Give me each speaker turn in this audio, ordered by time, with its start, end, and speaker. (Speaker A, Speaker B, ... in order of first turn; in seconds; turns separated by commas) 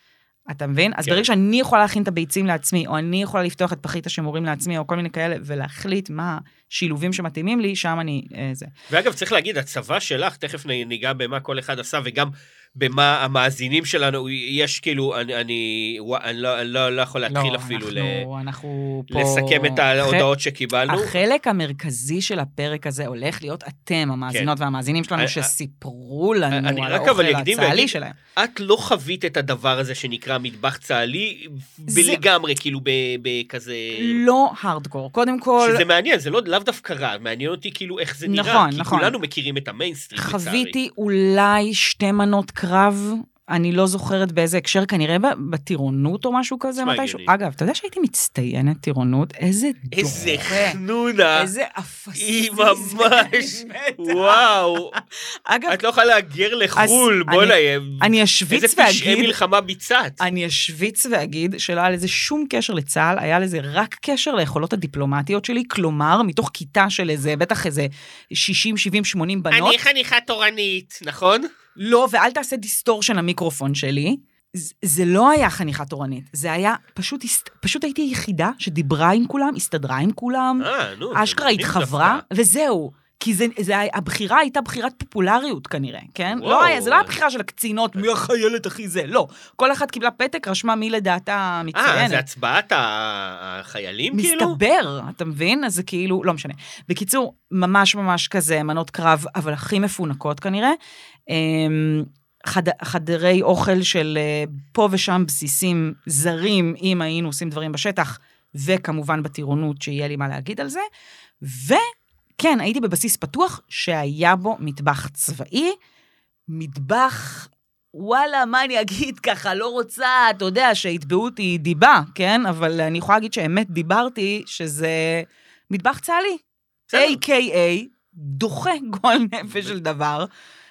Speaker A: 0.5-8.7, Speaker B: 1.0-1.3, Speaker B: 8.9-18.3, Speaker A: 17.3-20.3, Speaker B: 19.1-21.2, Speaker A: 20.9-28.1, Speaker B: 25.2-25.5, Speaker B: 26.5-34.2, Speaker A: 31.9-32.2, Speaker A: 33.9-35.9, Speaker B: 35.6-40.7, Speaker A: 38.2-39.2, Speaker A: 40.2-50.8, Speaker B: 46.8-47.3, Speaker B: 49.9-51.5, Speaker A: 51.3-55.8, Speaker B: 52.1-54.9, Speaker B: 55.7-60.2, Speaker A: 56.8-59.4, Speaker A: 60.2-69.8, Speaker B: 69.5-71.5, Speaker A: 71.8-92.2, Speaker B: 80.6-82.2, Speaker B: 86.3-87.1, Speaker B: 91.7-94.6, Speaker A: 94.1-100.8, Speaker A: 101.3-110.8, Speaker A: 111.4-111.8, Speaker A: 112.4-115.7, Speaker A: 116.5-126.4, Speaker B: 126.9-127.2, Speaker A: 126.9-130.3, Speaker B: 129.5-129.7